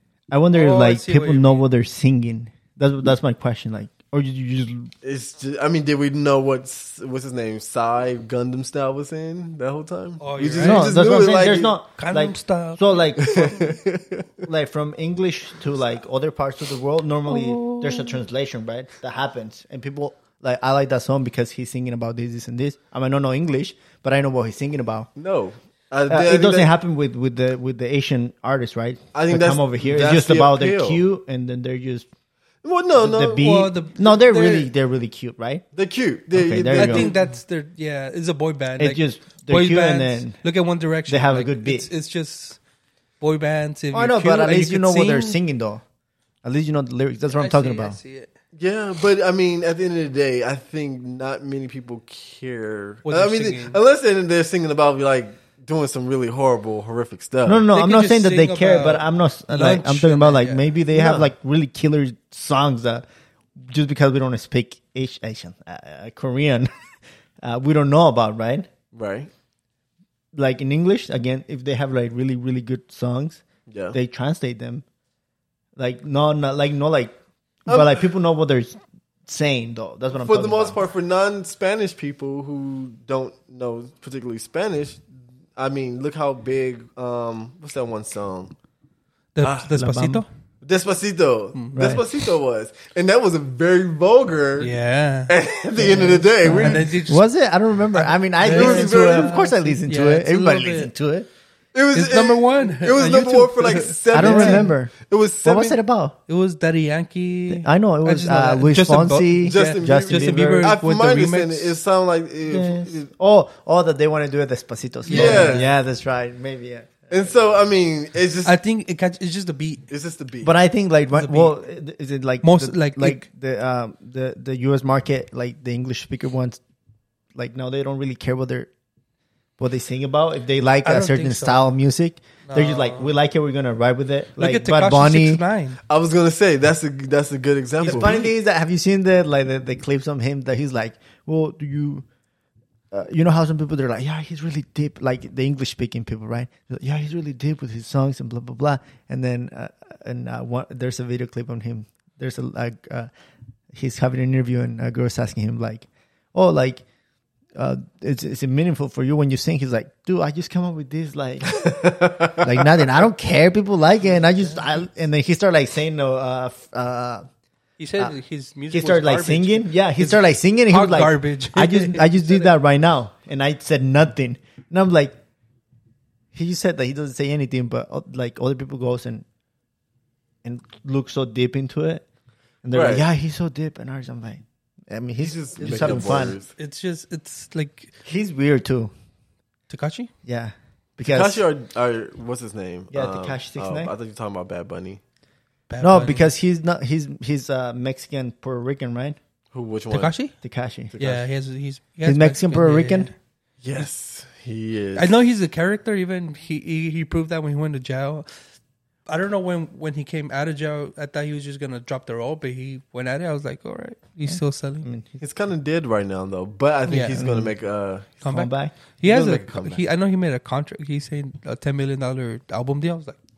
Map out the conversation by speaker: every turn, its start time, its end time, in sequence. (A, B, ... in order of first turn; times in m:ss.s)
0:00.3-0:04.9 A
0:00.5-0:01.7 B
0:05.0-0:11.7 C
0:10.2-0:11.0 B
0:10.6-0:13.8 A
0:12.0-0:13.4 B
0:13.2-0:14.5 C
0:14.4-0:25.1 A
0:17.3-0:18.2 B
0:25.2-0:26.7 C
0:26.1-0:32.1 A
0:29.1-0:31.0 C
0:32.6-0:33.4 C
0:33.0-0:35.6 A
0:33.3-0:34.7 B
0:35.7-0:37.2 C
0:36.3-0:37.1 A
0:36.8-0:42.6 B
0:38.8-0:40.4 A
0:41.1-0:41.9 A
0:43.2-0:45.4 B
0:43.9-0:45.8 A
0:46.4-0:48.0 A
0:47.3-0:48.3 B
0:48.5-0:57.6 C
0:53.1-0:53.8 B
0:57.5-1:03.1 A
0:57.7-1:01.2 B
1:03.7-1:06.7 A
1:07.4-1:08.7 A
1:08.9-1:09.3 C
1:10.3-1:14.8 A
1:13.7-1:14.0 C
1:15.8-1:17.2 A
1:17.7-1:20.8 A
1:17.7-1:18.0 C
1:20.1-1:25.0 C
1:25.6-1:28.5 C
1:29.4-1:30.3 B
1:29.4-1:29.7 C
1:29.7-1:30.2 A
1:30.6-1:34.7 C
1:31.6-1:32.0 B
1:31.8-1:32.0 A
1:34.6-1:37.3 B
1:35.3-1:37.0 C
1:35.8-1:41.3 A
1:37.9-1:40.9 B
1:38.5-1:39.3 C
1:41.7-1:45.8 C
1:41.9-1:44.7 B
1:43.0-1:43.4 A
1:44.1-1:46.2 A
1:46.3-1:51.8 B
1:47.5-1:50.8 A
1:49.4-1:53.1 C
1:52.5-1:57.1 A
1:55.1-1:55.7 B
1:55.1-1:55.7 C
1:57.1-1:58.6 C
1:58.4-1:59.9 B
1:59.9-2:00.5 C
2:00.4-2:06.6 A
2:01.1-2:01.6 B
2:02.4-2:03.2 B
2:07.4-2:08.7 A
2:09.6-2:15.4 A
2:10.8-2:11.6 B
2:12.5-2:13.1 B
2:14.4-2:15.8 B
2:15.9-2:18.3 C
2:17.8-2:22.0 A
2:22.9-2:33.1 A
2:33.7-2:36.8 A
2:37.6-2:41.7 A
2:41.5-2:42.8 C
2:42.3-2:47.2 A
2:44.2-2:44.8 B
2:47.8-2:52.5 B
2:48.7-2:55.2 A
2:56.3-2:59.2 A
3:00.4-3:02.0 A
3:02.6-3:06.4 A
3:02.7-3:03.1 C
3:05.2-3:06.5 C
3:06.6-3:07.9 B
3:08.0-3:08.9 A
3:09.7-3:10.1 B
3:10.3-3:11.4 A
3:11.0-3:15.0 C
3:12.9-3:13.9 A
3:15.7-3:16.3 B
3:15.8-3:19.2 A
3:19.5-3:20.1 C
3:19.9-3:20.4 B
3:20.4-3:21.1 A
3:21.0-3:23.1 B
3:22.0-3:23.1 A
3:23.6-3:25.1 C
3:25.0-3:28.3 B
3:29.1-3:34.9 B
3:34.3-3:35.2 A
3:35.2-3:38.2 C
3:36.9-3:37.2 B
3:37.1-3:37.5 A
3:38.2-3:38.7 A
3:38.2-3:43.2 B
3:39.0-3:39.8 C